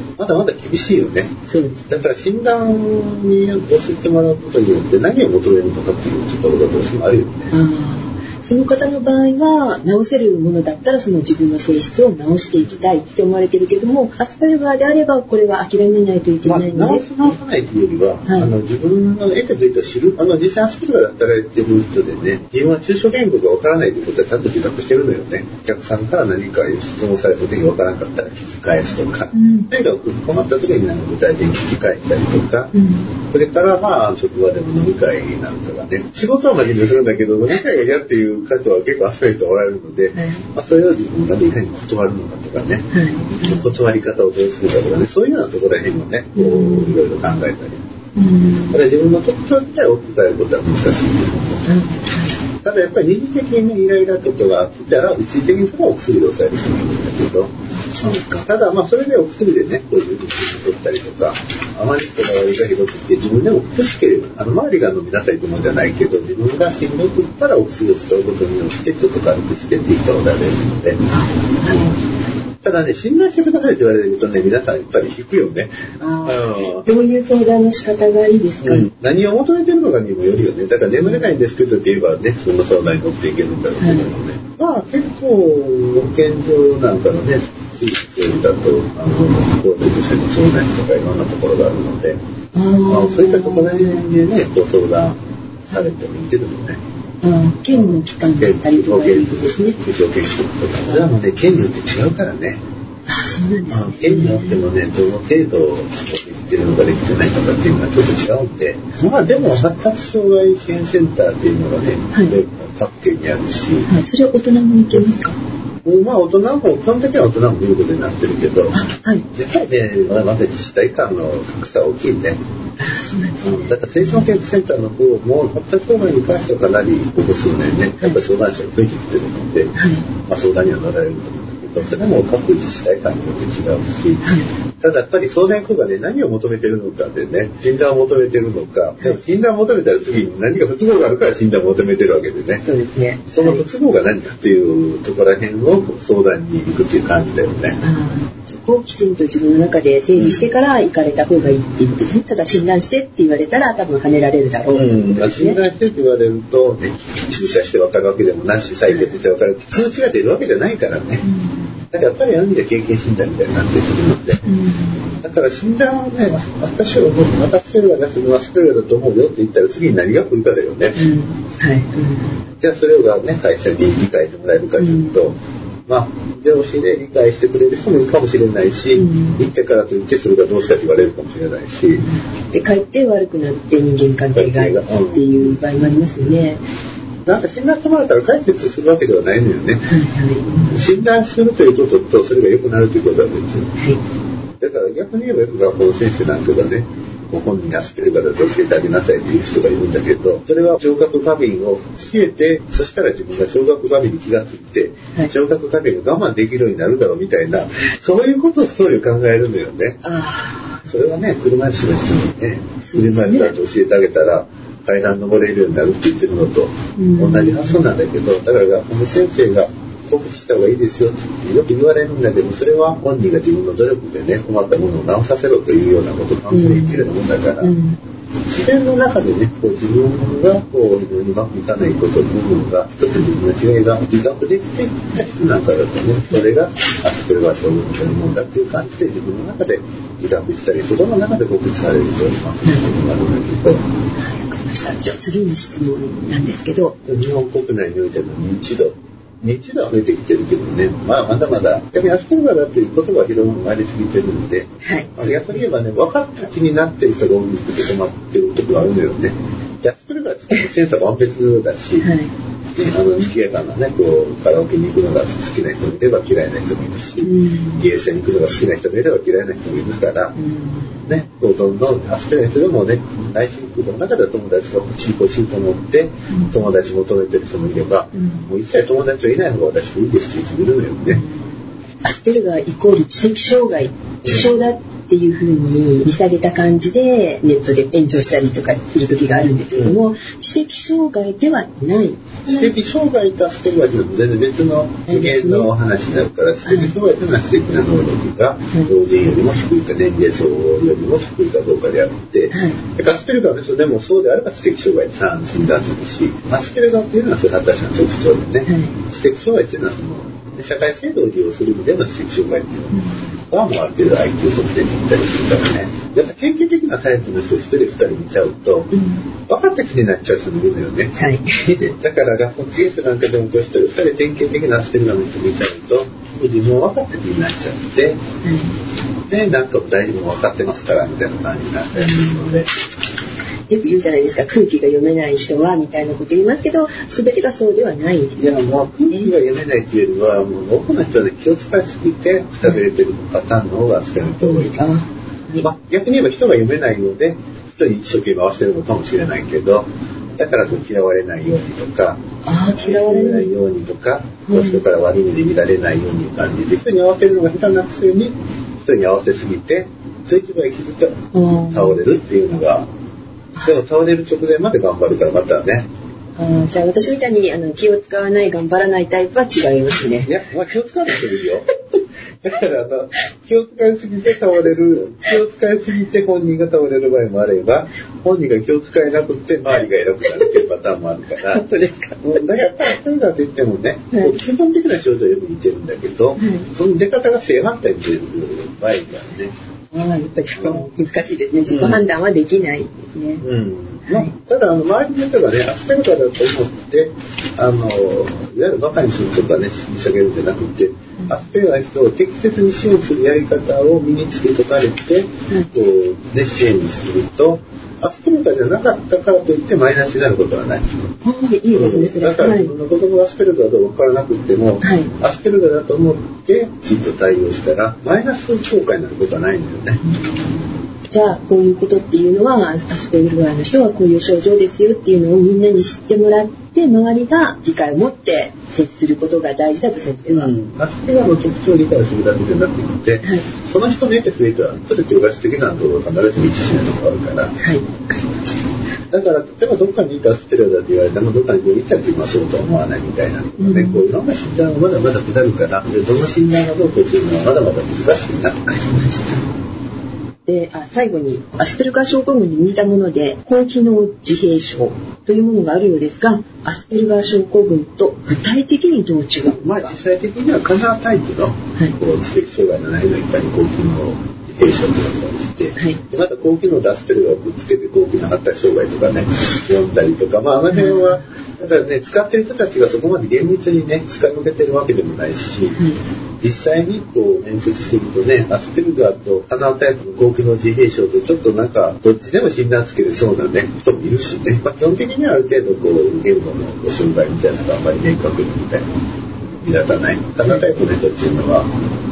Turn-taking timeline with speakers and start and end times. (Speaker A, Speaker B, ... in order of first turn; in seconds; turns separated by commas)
Speaker A: 0.2-1.4, Speaker B: 1.5-1.9, Speaker A: 1.9-7.5, Speaker B: 7.5-17.3, Speaker A: 12.6-12.8, Speaker A: 16.4-32.7, Speaker B: 18.3-18.5, Speaker B: 29.3-29.7, Speaker B: 32.7-33.1, Speaker A: 33.3-42.9, Speaker B: 40.2-40.4, Speaker B: 42.9-43.7, Speaker A: 43.4-47.8, Speaker B: 46.4-47.0, Speaker B: 48.1-48.8, Speaker A: 48.7-51.7, Speaker B: 51.7-52.4, Speaker A: 52.6-71.0, Speaker B: 57.8-58.5, Speaker B: 71.1-72.0, Speaker A: 72.6-75.7, Speaker B: 76.0-78.9, Speaker A: 76.2-76.9, Speaker A: 78.6-92.2, Speaker B: 81.0-81.3, Speaker B: 83.8-84.1, Speaker B: 92.5-94.0, Speaker A: 92.9-96.8, Speaker B: 97.2-99.8, Speaker A: 97.7-102.6, Speaker B: 103.1-104.7, Speaker A: 103.7-113.9, Speaker B: 109.2-109.7, Speaker B: 113.8-115.4, Speaker A: 115.8-118.8, Speaker B: 118.7-119.3, Speaker A: 119.3-122.4, Speaker B: 122.8-124.3, Speaker A: 123.4-129.7, Speaker B: 129.8-130.1, Speaker A: 130.2-142.6, Speaker B: 134.2-134.5, Speaker B: 142.7-143.6, Speaker A: 143.3-147.8, Speaker B: 147.8-155.6, Speaker A: 150.2-150.4, Speaker A: 154.7-161.2, Speaker B: 161.2-161.8, Speaker A: 161.9-164.4, Speaker B: 164.4-165.2, Speaker A: 165.2-171.0, Speaker B: 170.9-172.4, Speaker A: 172.6-182.1, Speaker B: 174.8-175.2, Speaker B: 179.0-179.4, Speaker B: 182.0-186.6, Speaker A: 184.3-185.6, Speaker A: 187.3-189.8, Speaker B: 189.8-190.8, Speaker A: 190.7-193.7, Speaker A: 194.6-210.0, Speaker B: 210.0-210.9, Speaker A: 210.9-227.8, Speaker B: 212.9-213.5, Speaker B: 217.0-217.8, Speaker B: 226.5-227.1, Speaker B: 227.6-228.0, Speaker A: 228.5-243.8, Speaker B: 243.7-247.0, Speaker A: 247.1-262.1, Speaker B: 254.8-255.6, Speaker B: 262.0-262.3, Speaker A: 262.7-270.4, Speaker B: 267.2-267.9, Speaker B: 270.4-271.0, Speaker A: 271.1-281.2, Speaker B: 276.3-276.6, Speaker B: 278.1-278.5, Speaker B: 281.1-281.4, Speaker B: 282.0-292.7, Speaker A: 284.2-284.5, Speaker A: 292.5-313.0, Speaker B: 295.1-295.7, Speaker B: 296.7-296.9, Speaker B: 302.5-302.8, Speaker B: 308.7-309.0, Speaker B: 312.9-313.2, Speaker A: 313.5-318.9, Speaker B: 318.9-319.2, Speaker A: 319.5-321.1, Speaker B: 321.2-321.9, Speaker A: 321.9-328.2, Speaker B: 328.4-328.8, Speaker A: 329.3-332.7, Speaker B: 332.0-332.4, Speaker B: 333.7-338.4, Speaker A: 338.4-344.9, Speaker B: 344.4-345.7, Speaker A: 345.6-349.9, Speaker A: 350.4-352.2, Speaker B: 352.4-353.5, Speaker A: 352.8-362.9, Speaker B: 354.5-354.8, Speaker B: 361.3-362.0, Speaker A: 363.6-365.9, Speaker B: 366.4-370.3, Speaker A: 370.2-371.7, Speaker A: 372.4-381.7, Speaker B: 381.5-382.4, Speaker A: 382.2-389.6, Speaker B: 386.4-386.7, Speaker B: 389.9-393.4, Speaker A: 390.6-390.9, Speaker A: 391.7-392.0, Speaker A: 393.4-411.1, Speaker B: 394.1-394.3, Speaker B: 411.2-412.7, Speaker A: 411.7-420.0, Speaker B: 414.8-415.1, Speaker B: 420.0-430.6, Speaker A: 430.3-437.6, Speaker B: 437.6-438.5, Speaker A: 439.1-448.6, Speaker B: 443.6-444.0, Speaker B: 448.7-449.5, Speaker B: 450.5-459.9, Speaker A: 459.6-475.8, Speaker B: 470.7-471.3, Speaker B: 475.8-476.0, Speaker A: 476.4-488.9, Speaker A: 489.6-491.8